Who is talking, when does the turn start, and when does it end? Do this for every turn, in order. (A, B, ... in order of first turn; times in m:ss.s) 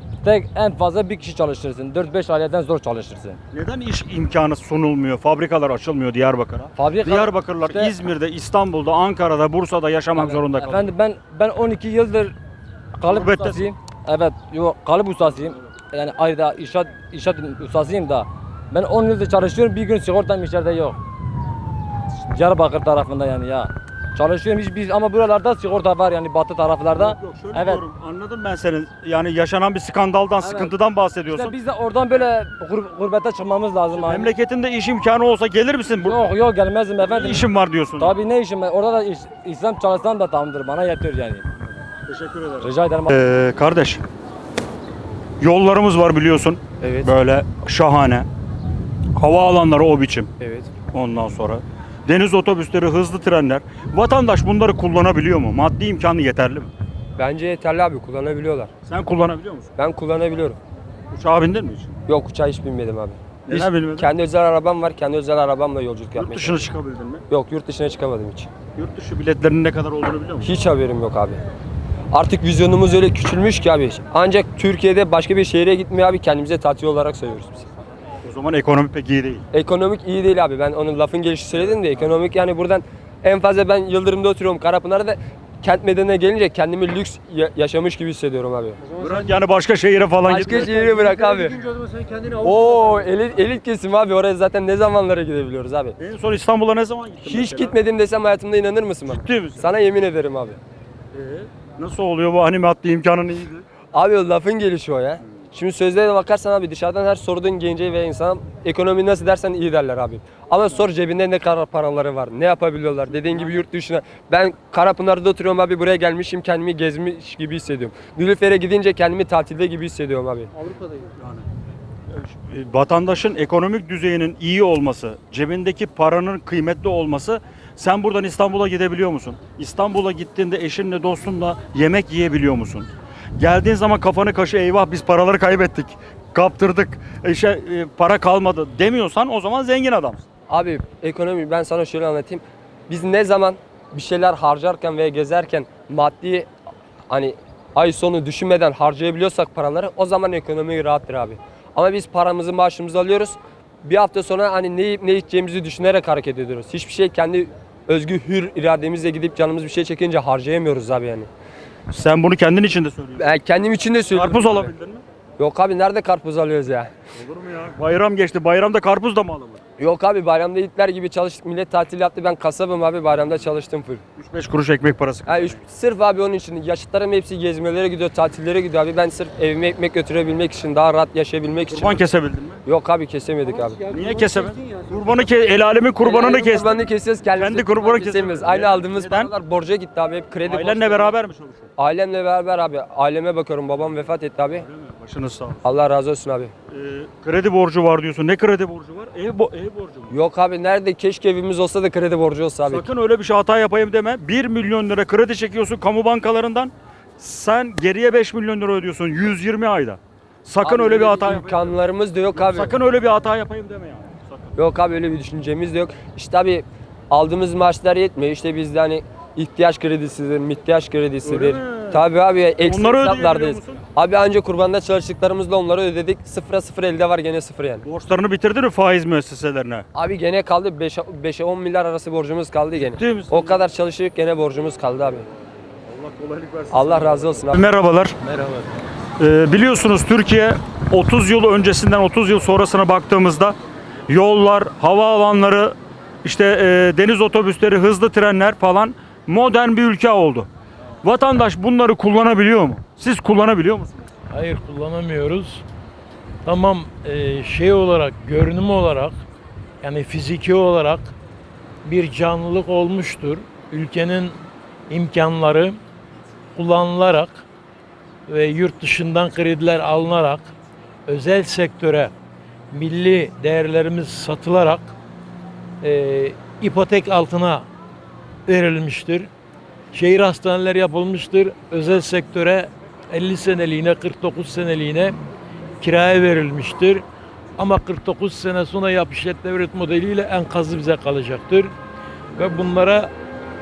0:00.2-0:03.4 A
0:03.5-0:10.9 B
0:06.8-0:07.9 A
0:10.2-0:12.4 A
0:13.0-0:21.0 A
0:13.1-0:13.7 B
0:22.3-0:27.8 A
0:27.0-0:31.6 B
0:30.4-0:30.7 A
0:31.3-0:34.3 A
0:33.9-0:36.2 B
0:36.1-0:37.5 A
0:37.0-0:38.1 B
0:38.0-0:41.4 A
0:42.1-0:44.0 B
0:42.6-0:43.2 A
0:45.4-0:48.3 B
0:46.8-0:47.1 C
0:49.2-0:50.3 B
0:50.4-0:50.7 C
0:50.9-0:56.7 B
0:57.2-0:58.7 C
0:58.8-0:59.7 B
0:59.8-1:00.6 C
1:01.1-1:02.0 B
1:02.1-1:06.7 C
1:03.5-1:04.1 B
1:06.2-1:07.2 B
1:07.3-1:08.5 C
1:08.8-1:10.6 B
1:10.4-1:11.4 C
1:12.1-1:17.7 C
1:18.2-1:19.4 B
1:19.5-1:28.8 C
1:21.5-1:22.2 B
1:28.8-1:29.4 D
1:29.0-1:30.8 B
1:30.3-1:31.6 C
1:30.3-1:33.5 D
1:32.4-1:36.0 C
1:36.0-1:37.8 B
1:37.3-1:40.6 C
1:39.1-1:39.7 B
1:41.1-1:43.7 B
1:43.9-2:00.5 C
1:53.1-1:53.6 B
2:00.6-2:01.1 D
2:01.2-2:01.5 B
2:02.1-2:20.3 B
2:20.5-2:26.5 C
2:27.1-2:41.3 C
2:41.9-2:43.4 B
2:43.2-2:44.7 C
2:44.1-2:45.0 B
2:45.4-2:46.9 C
2:47.2-2:49.6 B
2:49.8-2:54.0 C
2:54.2-2:55.6 B
2:55.3-3:02.0 C
3:01.7-3:02.6 B
3:02.7-3:03.8 C
3:03.4-3:05.4 D
3:03.9-3:06.8 B
3:06.0-3:11.2 C
3:07.4-3:09.3 B
3:10.4-3:11.7 B
3:11.8-3:14.6 C
3:14.6-3:15.6 B
3:15.6-3:16.5 C
3:16.7-3:20.1 B
3:20.1-3:22.9 C
3:22.7-3:31.8 B
3:30.6-3:32.7 C
3:32.3-3:34.6 B
3:34.6-3:47.9 C
3:41.2-3:42.0 B
3:42.6-3:43.8 B
3:47.8-3:49.9 B
3:50.0-3:55.2 C
3:52.8-3:53.6 B
3:55.9-3:58.2 B
3:56.7-3:57.6 C
3:58.2-3:58.7 E
3:59.2-4:03.6 B
4:04.1-4:10.5 B
4:11.0-4:14.1 B
4:14.3-4:15.6 E
4:16.4-4:19.2 E
4:19.8-4:21.1 E
4:21.8-4:24.4 E
4:24.9-4:25.8 E
4:26.6-4:27.4 E
4:28.3-4:30.5 E
4:31.1-4:32.1 E
4:32.7-4:35.0 E
4:35.8-4:37.7 E
4:38.5-4:39.3 E
4:39.9-4:45.2 E
4:45.8-4:47.0 E
4:47.6-4:51.7 E
4:52.4-4:53.1 E